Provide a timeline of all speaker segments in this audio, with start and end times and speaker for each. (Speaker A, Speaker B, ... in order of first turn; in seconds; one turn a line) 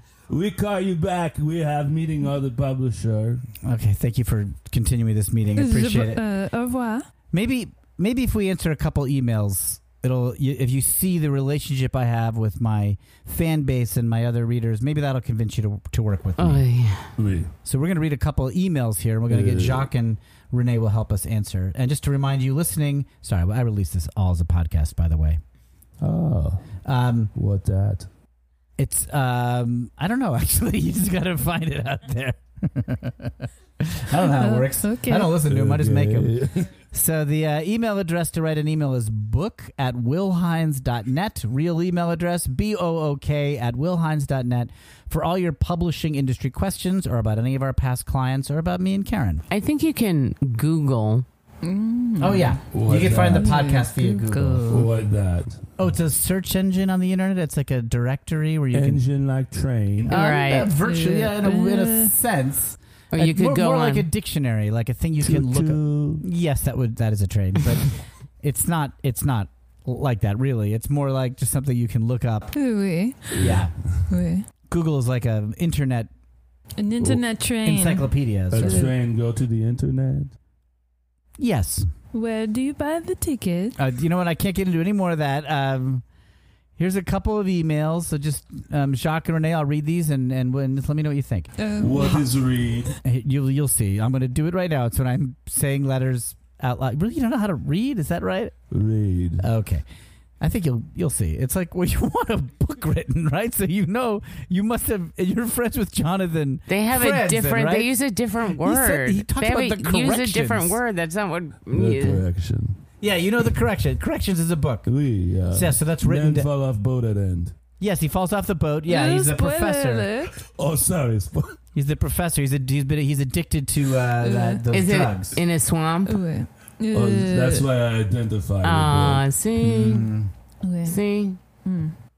Speaker A: 0.3-3.5
Speaker B: 3.6-6.2
Speaker C: 5.6-7.1
Speaker B: 7.3-16.7
Speaker D: 16.4-17.1
Speaker A: 17.2-17.5
Speaker B: 17.6-25.4
Speaker A: 19.3-19.9
Speaker A: 26.0-26.7
Speaker B: 26.8-27.3
Speaker A: 27.3-28.1
Speaker B: 28.8-36.3
Speaker C: 34.4-35.4
Speaker A: 35.5-36.7
Speaker B: 36.9-49.4
Speaker D: 49.5-51.2
Speaker C: 51.6-52.6
Speaker B: 52.2-54.8
Speaker A: 52.7-53.5
Speaker C: 53.3-54.9
Speaker A: 54.7-55.6
Speaker B: 55.8-59.0
Speaker A: 58.7-60.2
Speaker B: 60.0-72.6
Speaker D: 60.1-60.8
Speaker C: 60.8-62.2
Speaker D: 63.1-64.1
Speaker A: 65.2-66.2
Speaker C: 72.5-73.5
Speaker B: 73.3-73.7
Speaker A: 73.3-74.1
Speaker C: 74.1-74.5
Speaker B: 74.7-76.1
Speaker C: 76.8-78.9
Speaker B: 77.6-78.9
Speaker A: 78.5-80.3
Speaker B: 81.4-81.9
Speaker C: 82.1-83.8
Speaker B: 83.8-86.0
Speaker B: 86.8-91.5
Speaker C: 91.6-92.2
Speaker A: 91.8-93.0
Speaker B: 93.0-98.5
Speaker A: 98.7-99.5
Speaker B: 99.4-99.8
Speaker B: 100.4-107.9
Speaker D: 106.7-112.2
Speaker B: 108.5-110.8
Speaker A: 111.7-112.8
Speaker B: 113.0-114.9
Speaker A: 114.9-117.5
Speaker B: 115.5-116.5
Speaker B: 117.8-120.1
Speaker C: 118.9-120.3
Speaker A: 120.5-121.6
Speaker B: 121.7-125.4
Speaker C: 124.2-124.6
Speaker D: 124.7-126.2
Speaker C: 126.1-127.7
Speaker A: 126.9-129.3
Speaker D: 128.6-130.1
Speaker B: 129.6-130.3
Speaker C: 130.6-131.0
Speaker D: 130.9-131.4
Speaker C: 131.7-131.9